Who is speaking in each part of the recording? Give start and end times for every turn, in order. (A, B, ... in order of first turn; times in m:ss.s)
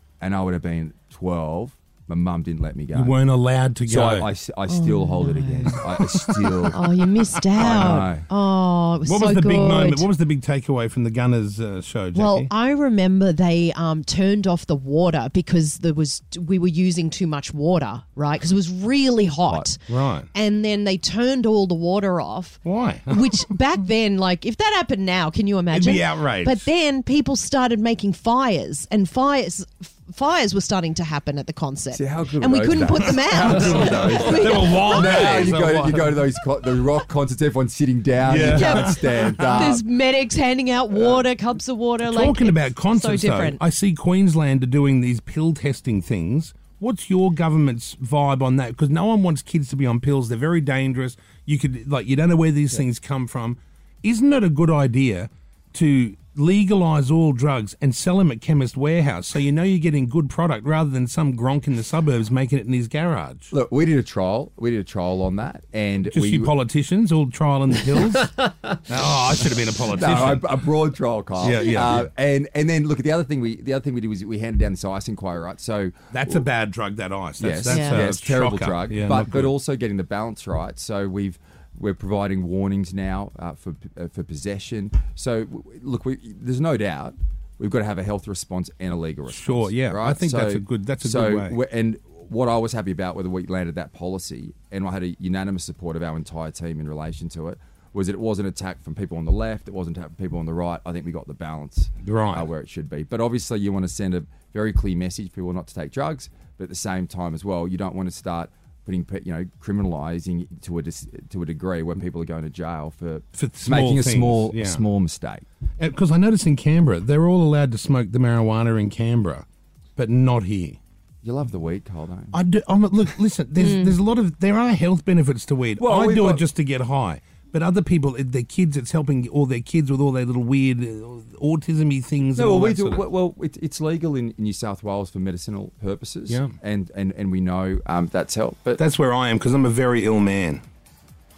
0:00.2-0:03.1 A
0:02.9-0:04.3 B
0:03.9-0:06.8 A
0:04.7-0:05.8 C
0:05.9-0:06.8 B
0:06.7-0:10.1 C
0:07.4-0:08.1 B
0:07.6-0:08.3 A
0:09.0-0:12.5 B
0:12.2-0:19.8 C
0:19.9-0:20.3 B
0:20.3-0:35.5 C
0:22.6-0:23.4 B
0:25.7-0:26.7 B
0:31.9-0:39.8 A
0:33.4-0:36.2 B
0:38.2-0:39.7 B
0:38.4-0:43.6 C
0:42.1-1:03.5 B
1:03.5-1:06.5 A
1:06.1-1:10.5 B
1:09.9-1:16.4 A
1:11.4-1:12.1 B
1:16.1-1:19.5 B
1:17.4-1:55.4 A
1:17.7-1:18.0 C
1:29.3-1:31.6 B
1:42.0-1:42.5 B
1:53.4-1:54.8 B
1:55.8-2:00.8 B
2:01.2-2:02.4 A
2:02.3-2:13.0 B
2:03.6-2:03.9 C
2:05.8-2:06.4 A
2:12.4-2:18.8 A
2:18.8-2:20.6 B